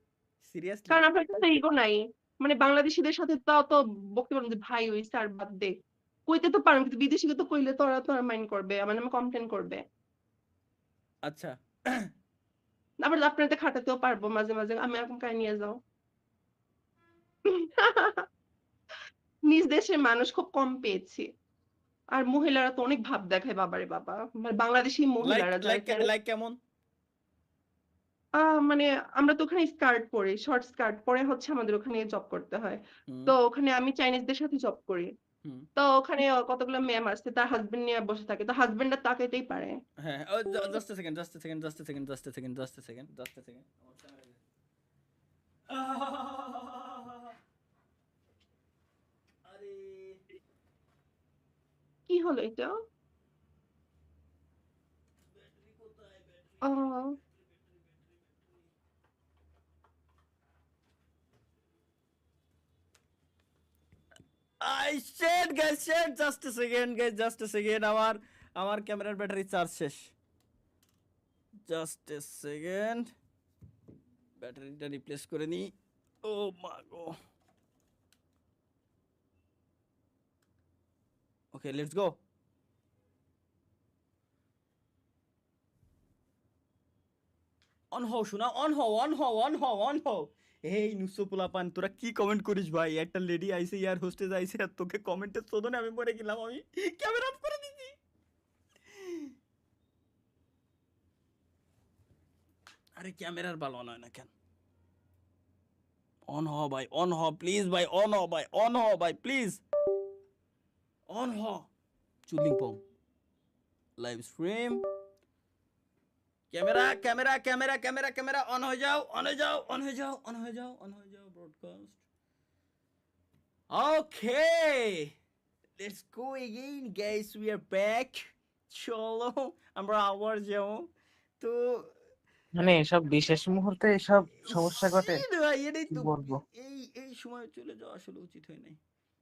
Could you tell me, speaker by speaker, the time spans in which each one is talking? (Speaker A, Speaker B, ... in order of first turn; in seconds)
Speaker A: 0.4-1.1, 11.3-12.1, 25.2-26.6, 33.1-33.3, 40.0-44.4, 45.7-47.3, 49.5-50.2, 55.3-56.7, 57.6-58.3, 64.6-70.1, 71.7-73.1, 74.4-75.7, 76.2-77.1, 81.5-82.1, 87.9-97.9, 99.0-99.3, 103.0-104.3, 106.3-109.6, 111.1-111.7, 112.2-112.8, 114.0-114.8, 116.5-122.0, 123.7-125.1, 125.8-130.8, 134.3-138.8
Speaker B: 0.9-5.7, 6.3-9.8, 13.0-15.8, 17.6-18.2, 19.5-21.3, 22.1-26.1, 28.5-35.1, 35.8-39.7, 52.1-52.7, 56.6-57.2
Speaker C: 132.6-135.2, 135.9-136.4